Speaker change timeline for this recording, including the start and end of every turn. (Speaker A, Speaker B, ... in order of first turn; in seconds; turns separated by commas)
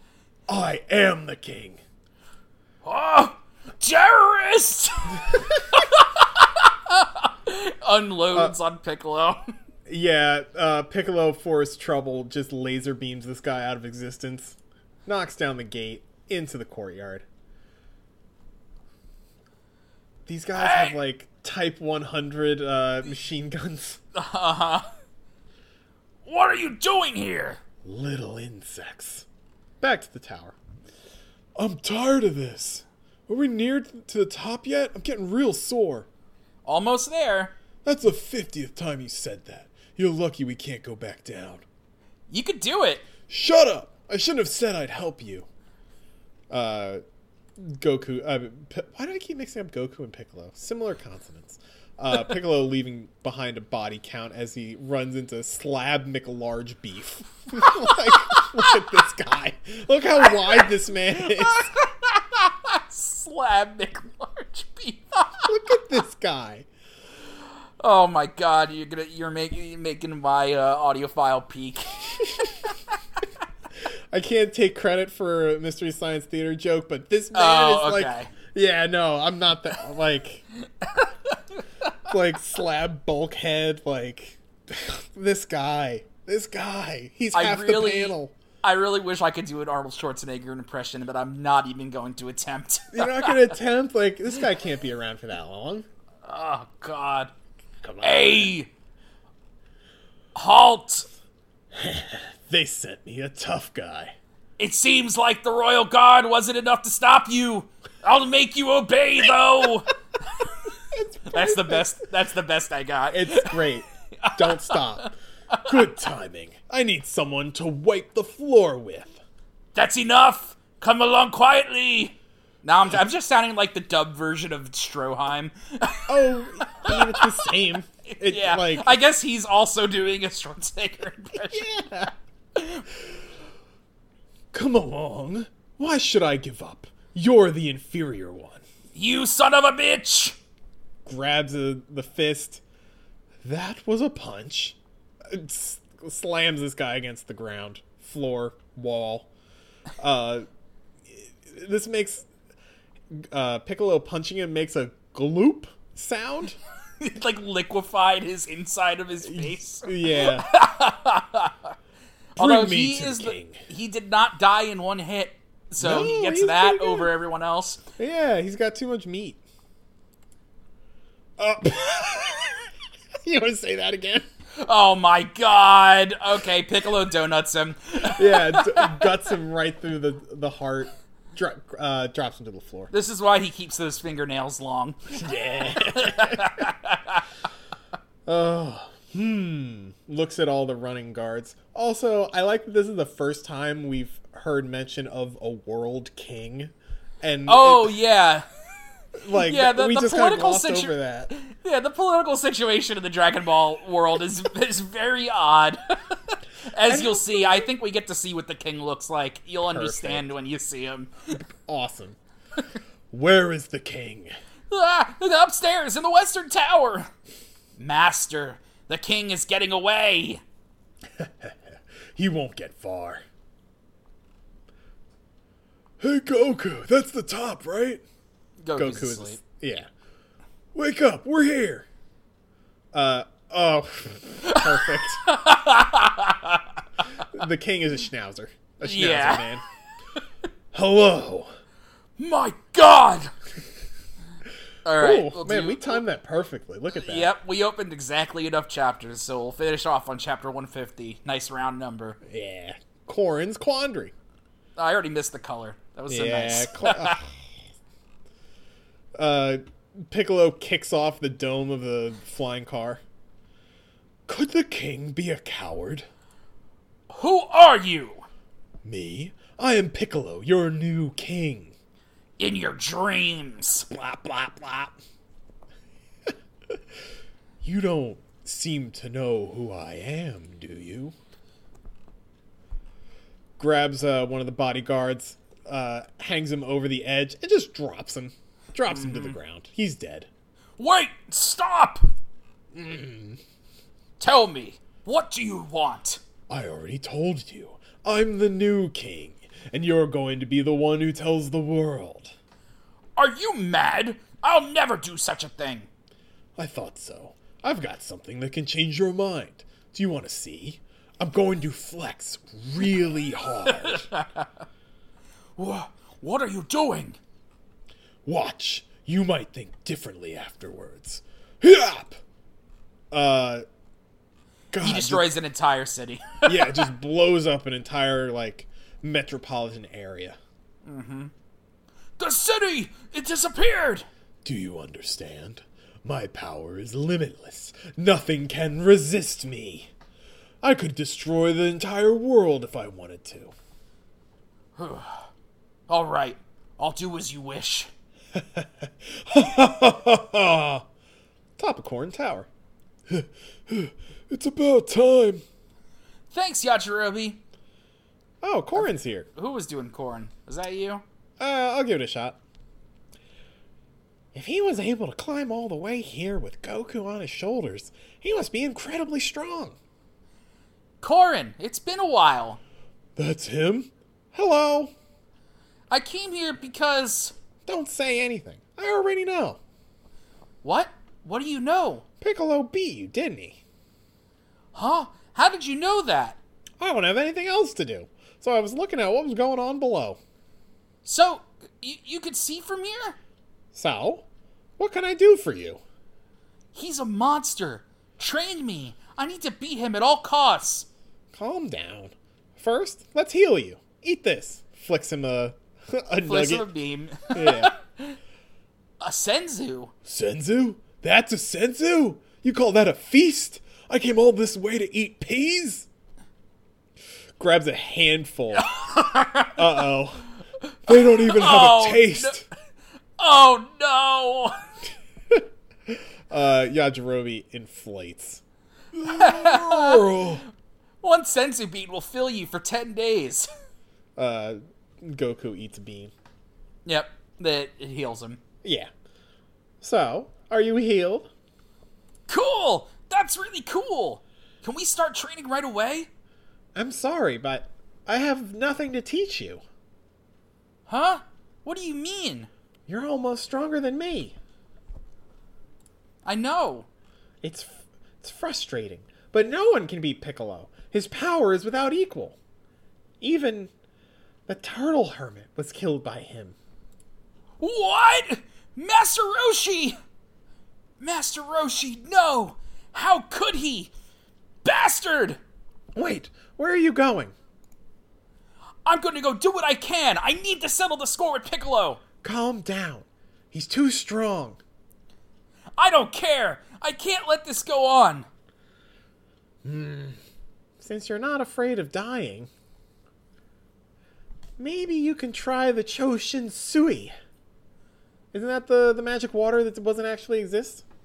Speaker A: 0.5-1.8, Speaker B: 2.8-9.5, Speaker A: 9.9-17.3, Speaker A: 20.3-24.0, Speaker B: 20.6-21.0, Speaker B: 24.1-24.9, Speaker B: 26.2-27.6, Speaker A: 27.8-29.3, Speaker A: 29.8-30.6, Speaker A: 31.6-36.1, Speaker B: 36.6-37.5, Speaker A: 37.9-41.6, Speaker B: 42.3-43.0, Speaker A: 43.3-45.5, Speaker A: 46.5-47.0, Speaker A: 47.6-61.7, Speaker B: 58.0-58.5, Speaker B: 60.3-65.5, Speaker A: 65.5-66.7, Speaker B: 67.8-72.5, Speaker A: 74.1-80.5, Speaker B: 77.3-78.3, Speaker B: 80.8-81.3, Speaker A: 82.1-88.3, Speaker B: 87.3-93.5, Speaker A: 92.9-95.9, Speaker B: 96.2-97.3, Speaker A: 97.8-98.5, Speaker B: 98.0-98.7, Speaker B: 100.3-101.1, Speaker A: 101.7-104.2, Speaker B: 104.6-109.9, Speaker A: 110.9-112.0, Speaker B: 111.3-113.6, Speaker A: 113.1-119.2, Speaker B: 114.2-115.7, Speaker B: 119.8-127.6, Speaker A: 126.1-129.0, Speaker B: 128.1-131.7, Speaker A: 131.4-132.1, Speaker B: 132.6-132.8, Speaker A: 134.5-138.6, Speaker B: 138.9-140.4, Speaker A: 141.1-142.6, Speaker A: 143.4-149.3, Speaker A: 150.0-150.5, Speaker A: 151.1-152.3, Speaker A: 153.1-156.6, Speaker B: 157.0-161.7, Speaker A: 159.2-160.5, Speaker B: 162.4-167.8, Speaker A: 162.4-163.6, Speaker A: 165.8-167.1, Speaker A: 168.0-169.4, Speaker A: 171.4-172.7, Speaker A: 173.2-174.3, Speaker B: 174.6-179.1, Speaker A: 178.1-182.9, Speaker B: 182.9-187.3, Speaker A: 185.1-186.7, Speaker A: 188.3-198.0, Speaker B: 197.5-198.5, Speaker A: 199.2-201.3, Speaker B: 199.3-211.4, Speaker A: 206.9-207.7, Speaker A: 209.7-210.3, Speaker A: 211.4-212.2, Speaker A: 213.1-214.3, Speaker B: 214.7-217.1, Speaker B: 217.8-220.4, Speaker A: 221.2-223.2, Speaker A: 226.0-228.0, Speaker B: 228.6-229.4, Speaker A: 228.8-229.9, Speaker A: 230.7-231.9, Speaker A: 232.9-235.2, Speaker B: 234.4-236.8, Speaker A: 237.3-239.7, Speaker B: 238.8-239.6, Speaker A: 240.7-241.5, Speaker B: 242.2-243.3, Speaker B: 244.8-246.0, Speaker A: 245.0-247.3, Speaker B: 247.0-252.2, Speaker A: 252.3-254.1, Speaker B: 254.8-257.2, Speaker A: 256.1-257.4, Speaker A: 259.2-263.0, Speaker A: 264.3-266.1, Speaker B: 267.1-268.3, Speaker A: 268.8-271.7, Speaker B: 272.4-273.9, Speaker A: 273.9-275.0, Speaker A: 277.6-281.1, Speaker A: 283.6-290.3, Speaker B: 288.9-289.4, Speaker B: 290.8-292.1, Speaker A: 292.7-293.4, Speaker B: 294.2-296.2, Speaker A: 296.5-302.3, Speaker B: 303.2-305.9, Speaker A: 306.6-314.1, Speaker B: 313.9-314.5, Speaker B: 315.6-317.2, Speaker A: 318.2-322.2, Speaker A: 323.1-323.6, Speaker A: 324.7-325.3, Speaker B: 324.8-326.9, Speaker A: 326.5-330.4, Speaker B: 330.9-331.3, Speaker B: 332.2-334.1, Speaker A: 334.4-339.9, Speaker A: 340.6-343.5, Speaker B: 344.8-345.3, Speaker B: 345.9-347.9, Speaker A: 348.4-350.9, Speaker A: 351.6-352.5, Speaker A: 353.1-355.4, Speaker B: 356.3-357.4, Speaker A: 358.4-359.3, Speaker B: 358.8-361.0, Speaker A: 361.4-362.4, Speaker A: 364.3-369.8, Speaker B: 371.0-372.6, Speaker A: 373.2-374.9, Speaker B: 375.9-377.3, Speaker A: 377.7-379.6, Speaker B: 380.6-382.1, Speaker A: 382.2-383.6, Speaker B: 384.7-386.4, Speaker A: 386.8-390.2, Speaker B: 391.1-393.2, Speaker A: 393.7-394.3, Speaker A: 394.8-395.8, Speaker B: 396.7-400.9, Speaker A: 401.3-406.7, Speaker B: 406.2-408.2, Speaker A: 407.3-407.7, Speaker B: 409.0-409.9, Speaker A: 410.1-415.9, Speaker A: 417.4-418.7, Speaker B: 418.7-419.8, Speaker A: 419.5-420.3, Speaker A: 420.9-422.5, Speaker B: 420.9-422.4, Speaker B: 423.2-424.6, Speaker A: 425.3-428.4, Speaker A: 428.9-430.4, Speaker B: 429.1-430.3, Speaker B: 431.0-433.5, Speaker A: 434.2-436.1, Speaker B: 436.9-438.4, Speaker A: 438.6-438.9, Speaker A: 439.8-441.3, Speaker B: 442.3-446.1, Speaker A: 446.8-449.6, Speaker B: 450.9-452.5, Speaker A: 452.9-454.4, Speaker B: 456.2-456.9, Speaker A: 457.4-462.4, Speaker A: 463.2-463.7, Speaker A: 464.5-466.6, Speaker B: 467.6-470.0, Speaker B: 471.0-473.9, Speaker B: 474.6-475.4, Speaker A: 475.9-477.3, Speaker B: 478.9-482.0, Speaker A: 482.2-484.6, Speaker B: 485.8-488.3, Speaker A: 489.6-490.2, Speaker A: 490.8-492.5, Speaker A: 494.6-497.1, Speaker A: 498.3-500.8